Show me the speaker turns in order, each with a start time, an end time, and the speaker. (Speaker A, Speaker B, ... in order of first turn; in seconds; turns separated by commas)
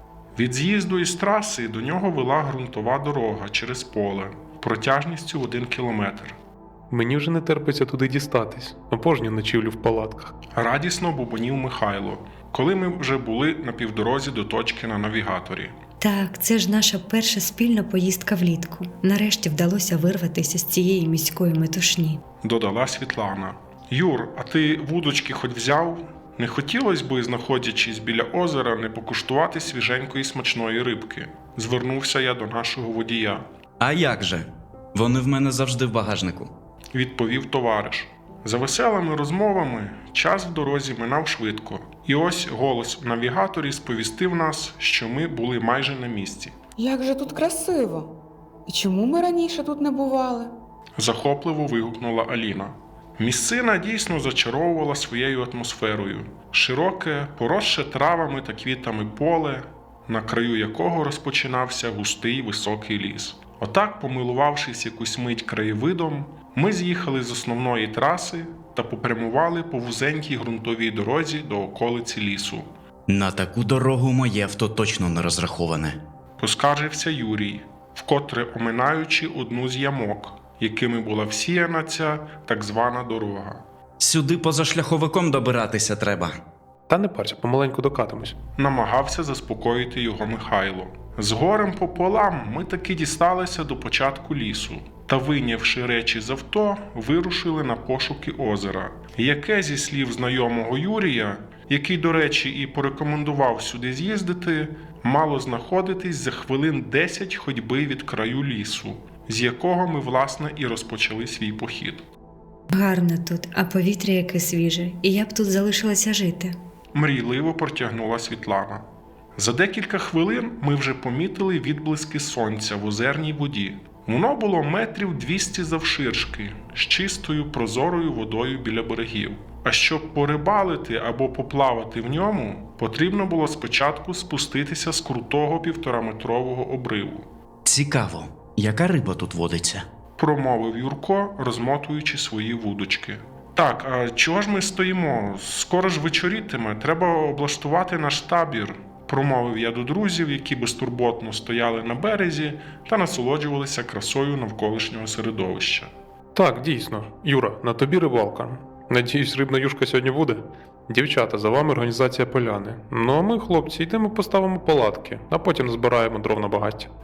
Speaker A: 0.3-6.4, Speaker B: 6.9-10.3, Speaker A: 10.5-15.8, Speaker C: 16.0-22.2, Speaker A: 22.4-33.5, Speaker D: 33.8-36.5, Speaker A: 36.9-46.5, Speaker E: 46.8-48.1, Speaker E: 48.7-50.5, Speaker A: 51.0-72.7, Speaker D: 73.1-76.0, Speaker A: 76.4-83.6, Speaker D: 84.0-86.4, Speaker B: 86.9-88.4, Speaker A: 88.6-112.1, Speaker C: 112.7-116.5, Speaker A: 116.9-118.8, Speaker A: 119.4-137.3, Speaker D: 137.7-139.9, Speaker A: 140.2-155.9, Speaker B: 156.3-166.9